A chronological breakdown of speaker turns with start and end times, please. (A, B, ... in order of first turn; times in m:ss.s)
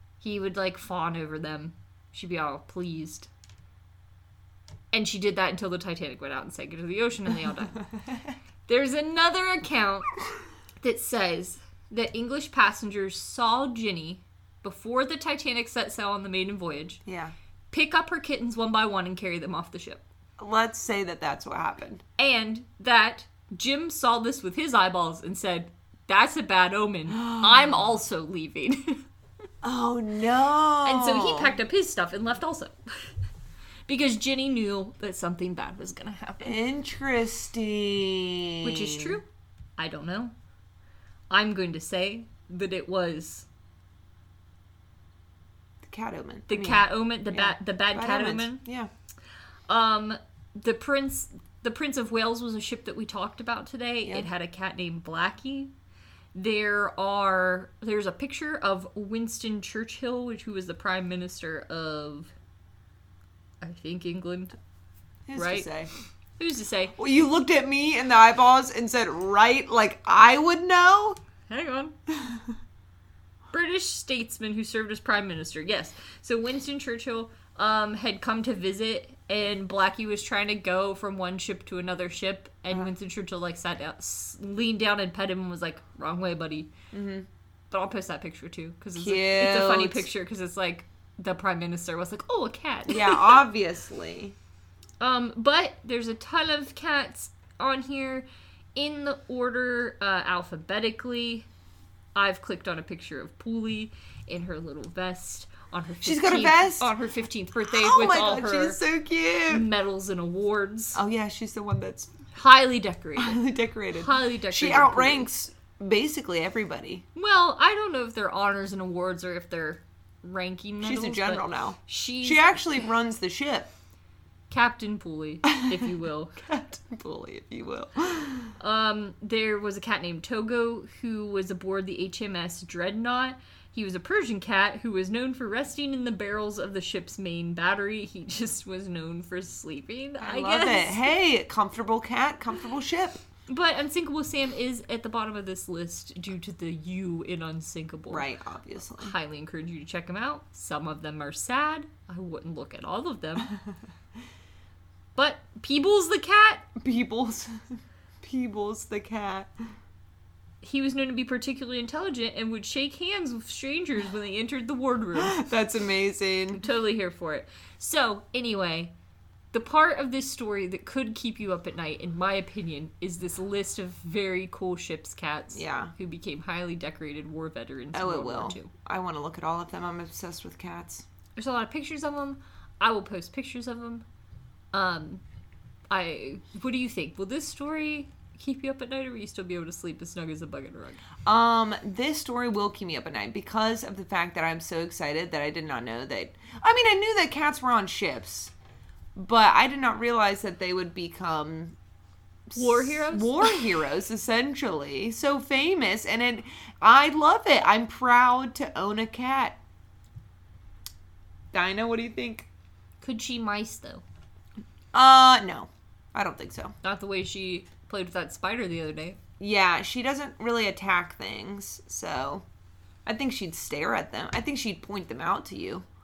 0:00.2-0:03.3 A
0:04.9-0:07.9 A
0:08.7-0:10.1 A
0:10.8-0:17.0 A
0:17.0-0:17.3 B
0:17.7-0:20.0 A
0:20.4-0:22.0 B
0:22.2-0:29.0 A
0:27.2-0:27.8 B
0:29.6-0:31.6 B
0:30.8-0:32.7 A
0:33.9-0:36.6 A
0:36.4-0:39.2 B
0:38.6-0:39.2 A
0:39.8-0:40.3 A
0:41.3-0:43.5 A
0:45.8-0:48.9 B
0:46.5-0:48.6 A
0:49.7-0:55.7 A
0:56.3-1:02.3 A
1:03.6-1:04.6 A
1:05.3-1:05.9 B
1:05.4-1:05.7 A
1:06.4-1:06.9 A
1:07.0-1:11.2 B
1:11.5-1:11.9 A
1:13.5-1:26.7 A
1:26.9-1:27.3 B
1:27.7-1:33.4 A
1:29.0-1:30.1 B
1:32.9-1:34.4 B
1:35.0-1:41.5 A
1:42.1-1:48.8 A
1:46.0-1:46.9 B
1:47.6-1:49.7 B
1:49.5-1:51.0 A
1:50.9-1:52.1 B
1:52.3-1:55.3 A
1:53.2-1:57.0 B
1:57.1-2:02.5 A
2:00.8-2:03.7 B
2:04.5-2:06.4 A
2:05.5-2:08.5 B
2:08.6-2:21.0 A
2:20.2-2:23.2 B
2:23.5-2:28.3 A
2:28.1-2:29.1 B
2:29.0-2:33.5 A
2:35.2-2:36.7 A
2:36.8-2:39.5 B
2:40.6-2:45.4 A
2:45.2-2:46.6 B
2:46.5-2:48.9 A
2:49.5-2:58.7 A
2:55.5-2:55.9 B
2:57.9-3:01.0 B
3:01.4-3:04.0 A
3:04.7-3:05.2 A
3:05.9-3:11.0 A
3:11.2-3:18.5 B
3:19.1-3:21.8 B
3:22.5-3:29.6 B
3:22.5-3:23.7 A
3:31.5-3:32.5 B
3:33.0-3:34.0 A
3:34.9-3:36.7 B
3:36.8-3:39.2 A
3:39.4-3:42.4 B
3:43.0-3:45.8 B